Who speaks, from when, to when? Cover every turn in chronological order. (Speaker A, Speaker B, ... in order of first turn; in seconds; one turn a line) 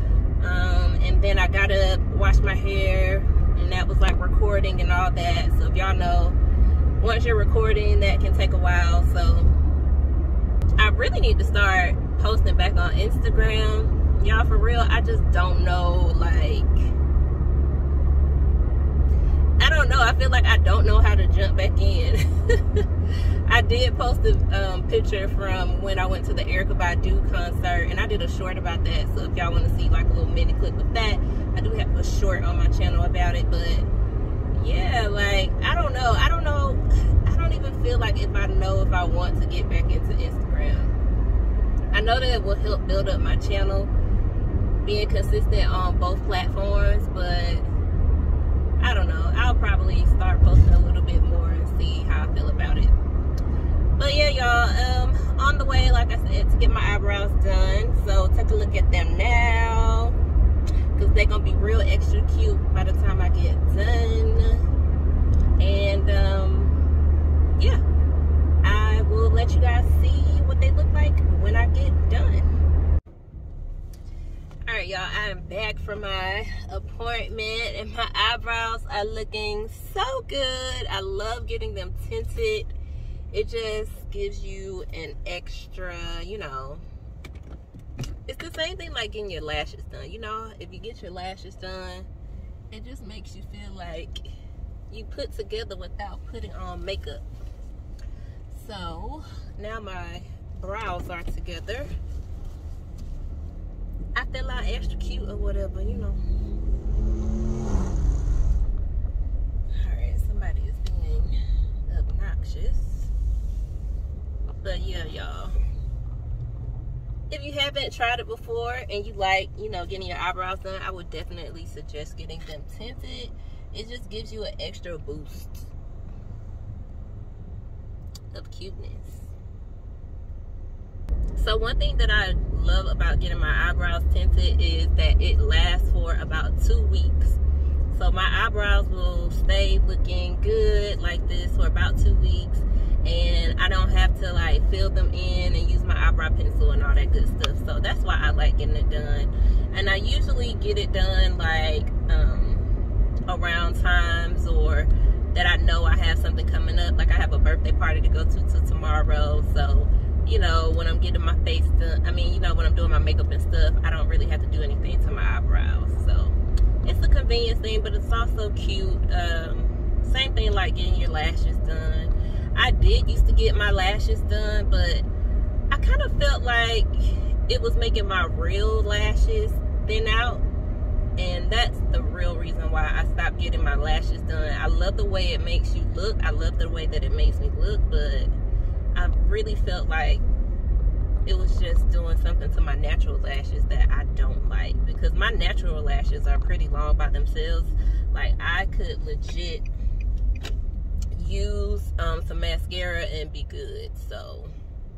Speaker A: 0.4-6.4
Speaker A: 7.0-9.5
Speaker A: 10.8-16.9
Speaker A: 19.6-22.9
Speaker A: 23.4-33.9
Speaker A: 34.5-41.0
Speaker A: 41.9-43.9
Speaker A: 44.8-47.7
Speaker A: 48.8-52.9
Speaker A: 54.0-60.1
Speaker A: 60.9-64.6
Speaker A: 65.6-66.8
Speaker A: 68.6-72.6
Speaker A: 74.7-82.8
Speaker A: 83.3-86.8
Speaker A: 88.3-92.1
Speaker A: 92.7-94.3
Speaker A: 94.9-97.2
Speaker A: 98.5-101.9
Speaker A: 104.1-106.2
Speaker A: 109.7-111.3
Speaker A: 111.8-113.1
Speaker A: 114.6-115.5
Speaker A: 117.3-125.7
Speaker A: 128.3-129.3
Speaker A: 131.3-137.4
Speaker A: 137.9-152.7
Speaker A: 153.3-175.1
Speaker A: 175.7-180.4
Speaker A: 181.2-188.3
Speaker A: 188.9-190.2
Speaker A: 191.2-199.7
Speaker A: 201.1-204.5